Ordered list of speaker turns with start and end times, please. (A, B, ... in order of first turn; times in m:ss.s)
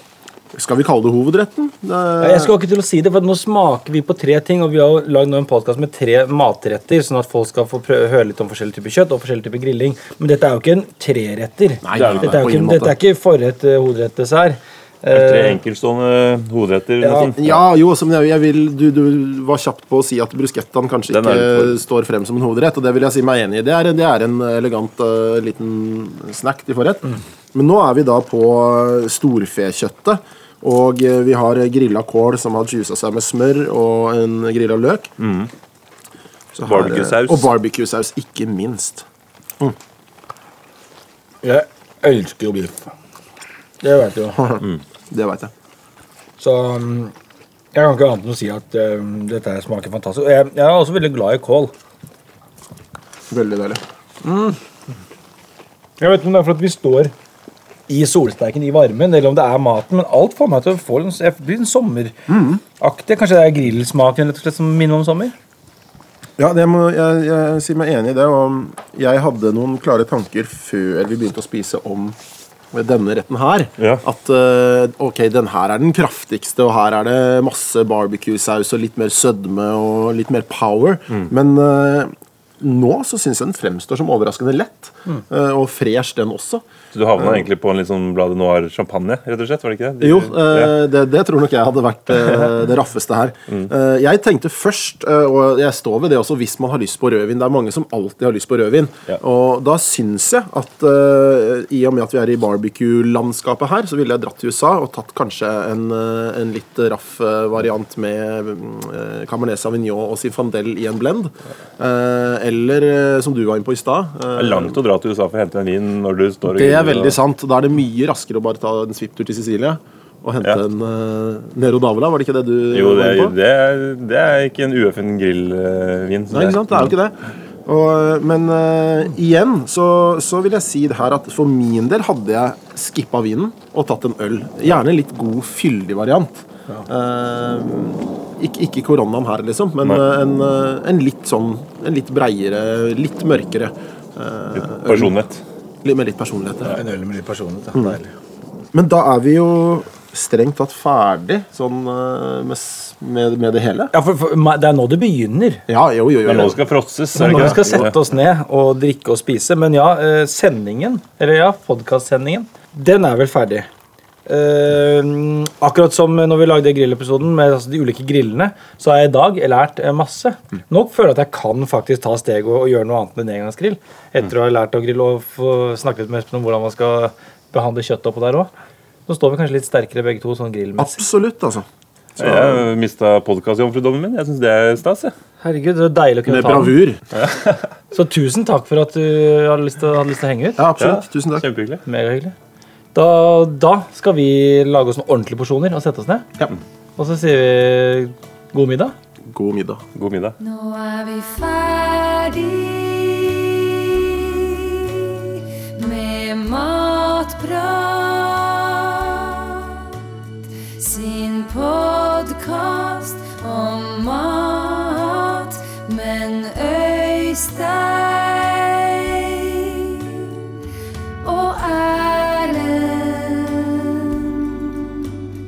0:00.5-0:02.5 A
0:02.2-0:15.6 B
0:11.8-0:13.0 A
0:12.0-0:12.2 C
0:15.1-0:17.6 C
0:17.0-0:17.3 B
0:17.4-0:35.1 A
0:21.1-0:21.8 C
0:35.2-0:35.5 C
0:36.5-0:39.0 A
0:36.6-0:37.5 C
0:41.4-0:42.8 B
0:43.8-0:44.4 B
0:44.4-0:45.5 A
0:46.4-0:47.1 B
0:47.7-0:51.7 B
0:53.3-0:53.8 A
0:54.2-0:54.6 B
0:56.0-0:57.1 B
0:57.9-1:02.3 B
1:02.3-1:02.6 A
1:02.8-1:05.4 B
1:06.4-1:12.2 A
1:12.7-1:26.6 A
1:26.9-1:30.8 C
1:27.2-1:27.4 A
1:30.0-1:54.8 A
1:54.4-1:57.2 C
1:56.5-2:03.4 A
2:02.7-2:06.9 C
2:06.3-2:25.1 A
2:24.6-2:25.4 C
2:25.8-2:26.8 A
2:26.7-2:28.1 B
2:28.7-2:33.9 A
2:33.9-2:35.6 B
2:35.7-2:36.6 A
2:36.2-2:37.9 C
2:37.2-2:43.7 B
2:37.2-2:37.9 A
2:44.3-2:58.5 B
2:59.1-3:01.0 B
3:00.8-3:01.7 A
3:02.2-3:05.1 C
3:05.4-3:06.8 B
3:06.3-3:07.0 A
3:07.2-3:07.7 C
3:07.9-3:10.7 B
3:10.6-3:11.5 A
3:10.8-3:11.8 C
3:11.8-3:12.4 B
3:12.9-3:16.3 B
3:17.0-3:19.0 B
3:19.3-3:19.8 A
3:20.0-3:20.4 C
3:20.4-3:30.1 D
3:30.8-3:40.4 D
3:41.2-3:45.3 D